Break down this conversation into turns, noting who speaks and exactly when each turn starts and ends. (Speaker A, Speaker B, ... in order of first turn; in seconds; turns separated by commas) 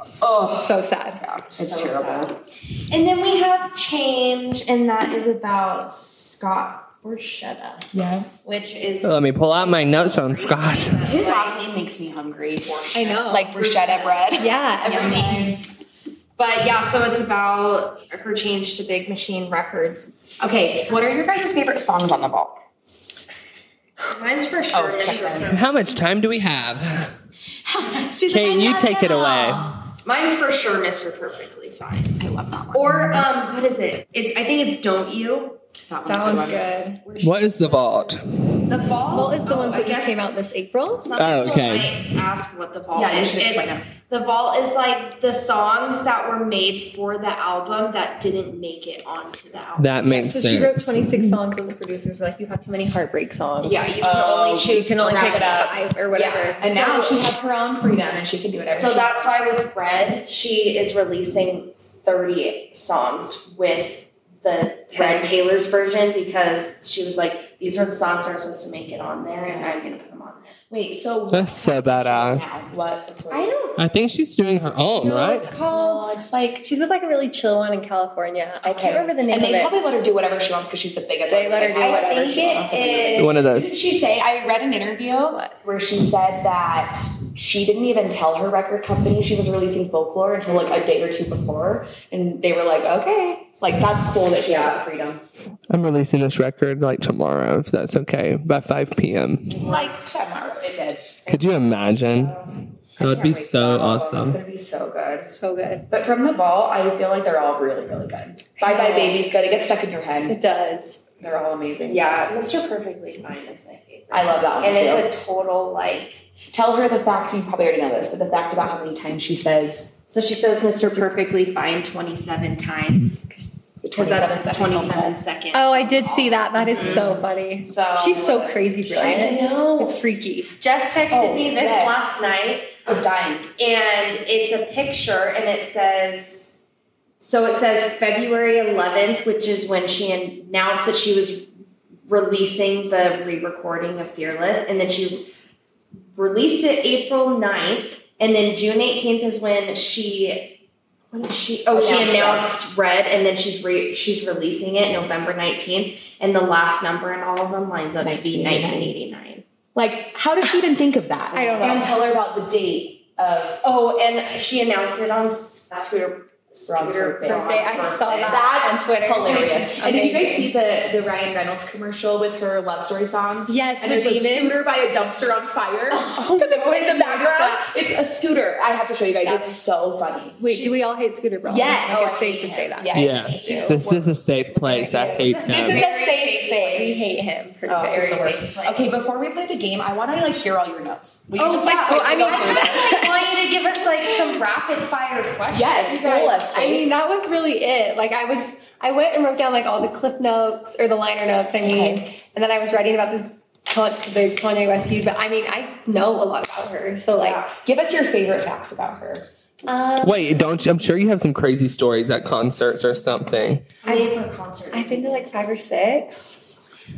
Speaker A: 0.2-2.4, Speaker B: 0.5-1.2, Speaker C: 1.5-7.9, Speaker A: 7.9-8.3, Speaker C: 8.4-11.7, Speaker D: 9.0-11.1, Speaker A: 11.1-15.6, Speaker B: 12.9-13.6, Speaker C: 13.3-15.5, Speaker B: 14.4-15.5, Speaker C: 16.4-20.1, Speaker A: 20.4-22.6, Speaker C: 24.1-26.0, Speaker A: 24.7-25.6, Speaker D: 25.4-27.1, Speaker A: 27.6-29.4, Speaker D: 28.3-29.8, Speaker C: 28.7-32.2, Speaker A: 32.2-33.2, Speaker C: 32.7-35.6, Speaker A: 35.9-38.1, Speaker B: 36.1-37.0, Speaker D: 37.2-38.2, Speaker C: 38.6-40.4, Speaker B: 39.1-41.1, Speaker C: 41.0-49.9, Speaker D: 41.2-42.1, Speaker A: 42.9-43.9, Speaker D: 49.8-51.2, Speaker B: 50.1-54.0, Speaker C: 53.6-57.3, Speaker A: 54.0-55.8, Speaker B: 54.6-56.6, Speaker A: 56.6-59.4, Speaker C: 58.7-70.5, Speaker B: 64.9-65.3, Speaker A: 70.7-73.6, Speaker D: 71.3-72.5, Speaker C: 73.3-73.8, Speaker D: 73.8-75.5, Speaker C: 75.2-75.8, Speaker A: 75.2-76.6, Speaker B: 75.5-79.8, Speaker A: 78.6-95.2, Speaker B: 81.3-83.0, Speaker C: 81.7-83.4, Speaker D: 83.2-83.9, Speaker B: 85.3-85.5, Speaker C: 90.5-90.8, Speaker C: 94.4-94.8, Speaker D: 95.7-99.6, Speaker A: 99.5-101.3, Speaker C: 99.6-99.9, Speaker D: 101.3-104.4, Speaker C: 102.0-102.5, Speaker A: 103.0-105.3, Speaker C: 103.0-103.5, Speaker B: 105.3-105.9, Speaker A: 105.9-110.4, Speaker C: 108.6-109.2, Speaker B: 110.3-111.0, Speaker A: 111.2-112.1, Speaker C: 111.9-116.3, Speaker A: 114.1-115.1, Speaker A: 116.5-120.0, Speaker C: 120.1-127.2, Speaker A: 123.8-125.2, Speaker B: 125.5-130.5, Speaker A: 126.4-130.0, Speaker C: 129.0-129.6, Speaker C: 130.6-136.6, Speaker A: 131.1-133.5, Speaker C: 137.2-141.5, Speaker C: 142.1-145.3, Speaker C: 146.2-150.6, Speaker C: 151.1-159.4, Speaker A: 151.7-152.5, Speaker A: 158.0-158.9, Speaker A: 159.8-163.6, Speaker B: 161.3-162.0, Speaker C: 163.6-168.5, Speaker A: 166.7-180.4, Speaker B: 167.2-170.5, Speaker B: 173.5-174.6, Speaker B: 176.0-177.6, Speaker B: 179.2-179.9, Speaker B: 180.4-183.8, Speaker C: 180.5-180.8, Speaker A: 181.5-187.1, Speaker C: 181.9-182.7, Speaker D: 182.9-185.9, Speaker B: 184.8-185.9, Speaker C: 185.4-187.1, Speaker B: 186.6-189.0, Speaker A: 187.7-193.1, Speaker C: 187.9-188.9, Speaker B: 191.4-193.3, Speaker C: 191.4-196.3, Speaker A: 195.5-196.9, Speaker B: 195.9-207.5, Speaker A: 201.6-202.0, Speaker A: 207.2-209.3, Speaker B: 209.7-210.1, Speaker D: 210.0-213.7, Speaker C: 213.8-215.5, Speaker B: 213.8-214.1, Speaker B: 214.7-216.6